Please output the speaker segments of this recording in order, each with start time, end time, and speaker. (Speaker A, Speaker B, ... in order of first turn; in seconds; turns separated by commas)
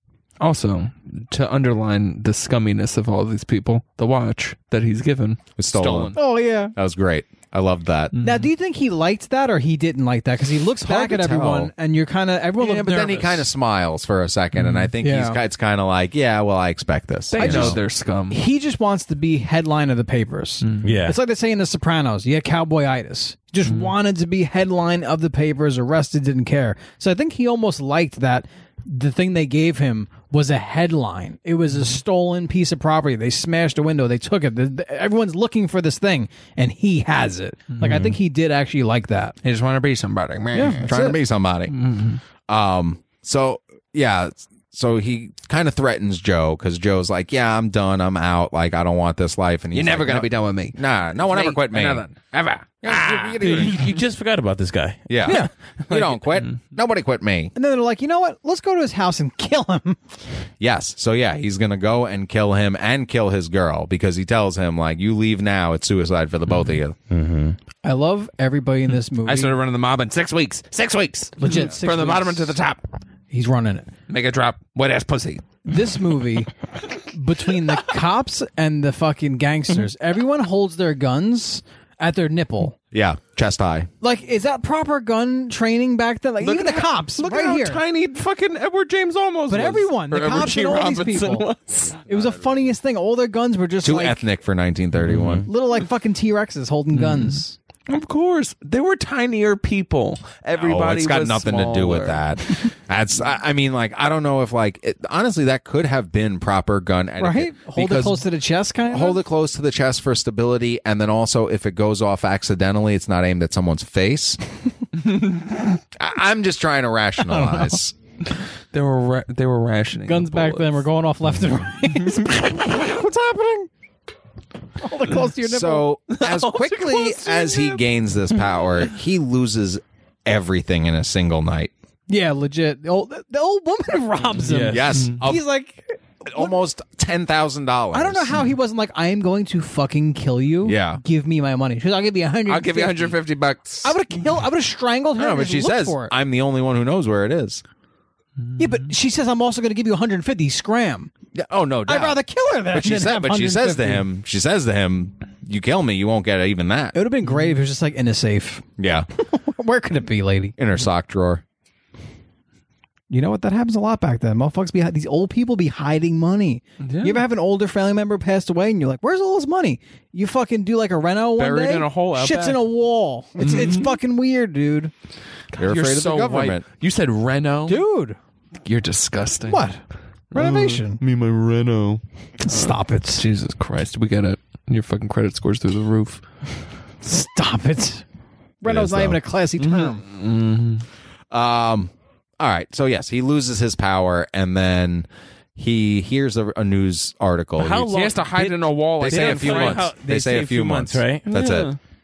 Speaker A: 0.4-6.2, Speaker B: 5.6-6.2, Speaker C: 6.2-6.8, Speaker B: 6.8-8.2, Speaker A: 8.1-8.5, Speaker C: 8.2-13.5, Speaker B: 10.8-11.7, Speaker B: 12.6-17.8, Speaker A: 14.6-14.9, Speaker C: 15.0-15.4, Speaker A: 17.3-18.4, Speaker C: 17.3-39.4, Speaker A: 20.6-20.9, Speaker D: 20.8-21.2, Speaker A: 23.7-23.9, Speaker A: 37.8-38.1, Speaker A: 39.4-40.9, Speaker C: 40.5-41.2, Speaker B: 40.9-41.8, Speaker A: 41.7-42.2, Speaker B: 42.5-52.1, Speaker A: 49.7-53.8, Speaker B: 52.8-53.9, Speaker D: 53.4-56.2, Speaker B: 55.1-57.5, Speaker C: 55.2-55.5, Speaker C: 57.5-60.0, Speaker B: 60.6-67.0, Speaker A: 66.5-66.8, Speaker D: 67.1-67.6, Speaker C: 67.8-69.6, Speaker A: 69.2-72.8, Speaker C: 71.4-72.5, Speaker C: 73.3-73.9, Speaker A: 74.1-75.5, Speaker C: 75.7-76.5, Speaker C: 77.1-82.8, Speaker B: 82.9-83.9, Speaker C: 84.0-87.8, Speaker A: 86.5-92.0, Speaker C: 89.5-91.5, Speaker C: 92.1-94.2, Speaker B: 93.8-95.5, Speaker D: 95.0-95.5, Speaker C: 95.5-97.6, Speaker A: 96.9-102.3, Speaker B: 100.6-108.2, Speaker C: 107.2-109.2, Speaker B: 108.9-114.4, Speaker B: 116.0-117.9, Speaker C: 117.2-117.8, Speaker A: 118.7-120.8, Speaker C: 120.1-123.7, Speaker A: 122.0-122.4, Speaker C: 124.8-125.9, Speaker B: 125.4-131.7, Speaker A: 126.2-127.8, Speaker C: 132.1-136.6, Speaker D: 134.4-135.1, Speaker B: 134.6-135.4, Speaker B: 136.3-138.5, Speaker C: 137.9-143.2, Speaker B: 140.7-141.0, Speaker A: 142.5-144.0, Speaker C: 143.8-146.1, Speaker B: 145.2-147.6, Speaker C: 148.6-151.1, Speaker B: 151.3-152.2, Speaker C: 151.9-154.1, Speaker B: 152.7-157.0, Speaker C: 156.9-160.6, Speaker B: 158.8-159.1, Speaker B: 160.6-161.4, Speaker C: 163.1-174.9, Speaker A: 166.8-167.2, Speaker A: 171.4-172.6, Speaker A: 173.4-173.9, Speaker A: 175.5-177.8, Speaker B: 175.6-176.6, Speaker C: 177.7-178.2, Speaker A: 178.7-179.7, Speaker C: 179.5-179.8, Speaker C: 180.3-181.0, Speaker A: 180.3-186.2, Speaker C: 182.4-183.2, Speaker C: 187.0-188.0, Speaker C: 188.6-190.0, Speaker B: 188.7-189.2, Speaker A: 189.6-190.9, Speaker B: 191.3-197.9, Speaker D: 197.6-201.3, Speaker A: 197.9-199.9, Speaker B: 199.0-201.7, Speaker A: 201.3-201.8